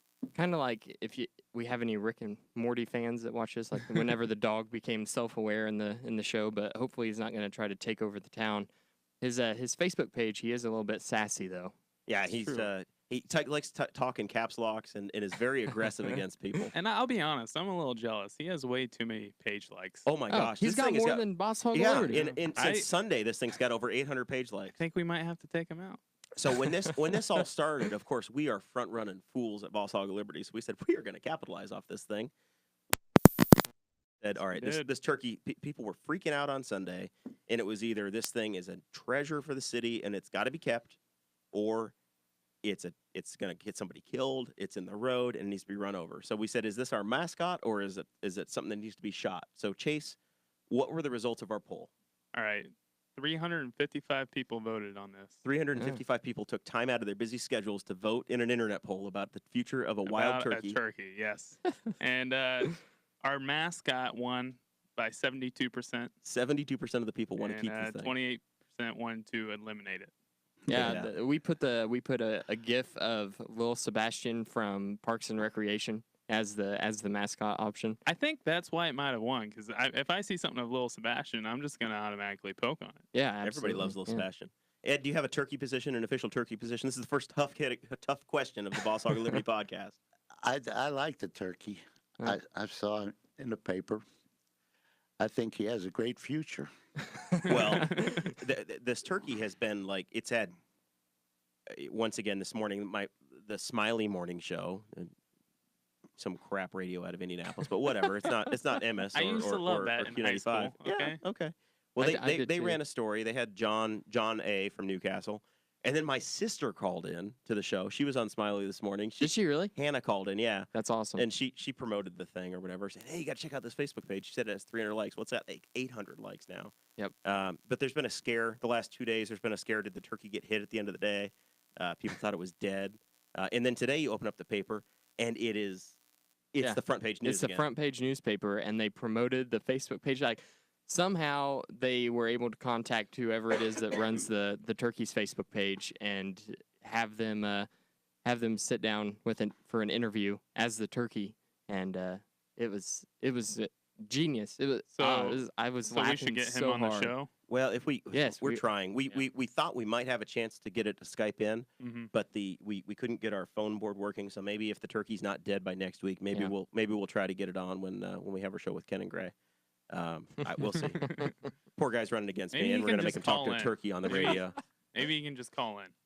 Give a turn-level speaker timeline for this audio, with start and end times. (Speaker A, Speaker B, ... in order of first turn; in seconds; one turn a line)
Speaker A: 0.3-8.7
Speaker A: 9.2-11.7
Speaker B: 12.1-16.7
Speaker C: 16.7-20.1
Speaker B: 20.1-24.7
Speaker A: 20.3-22.4
Speaker C: 22.5-22.9
Speaker C: 24.7-26.0
Speaker B: 26.4-32.3
Speaker B: 34.2-41.0
Speaker C: 34.5-34.9
Speaker B: 41.5-41.9
Speaker B: 42.6-50.2
Speaker B: 50.7-51.9
Speaker C: 52.3-55.4
Speaker B: 55.4-60.8
Speaker C: 60.0-66.1
Speaker B: 66.2-68.1
Speaker C: 67.4-70.1
Speaker B: 70.7-71.1
Speaker A: 70.7-78.0
Speaker C: 78.0-83.0
Speaker A: 83.1-84.2
Speaker B: 83.4-90.0
Speaker D: 90.4-94.0
Speaker D: 95.2-96.7
Speaker B: 97.5-100.5
Speaker C: 97.7-97.9
Speaker B: 101.7-105.1
Speaker B: 106.2-136.0
Speaker C: 109.1-111.2
Speaker A: 112.0-112.8
Speaker A: 119.2-119.7
Speaker A: 120.7-121.3
Speaker B: 136.5-137.7
Speaker A: 136.6-147.7
Speaker A: 148.2-157.1
Speaker C: 154.9-157.3
Speaker B: 157.5-169.3
Speaker A: 158.1-158.7
Speaker C: 161.8-162.1
Speaker B: 169.9-171.2
Speaker B: 171.7-174.6
Speaker C: 172.5-174.4
Speaker C: 174.9-175.9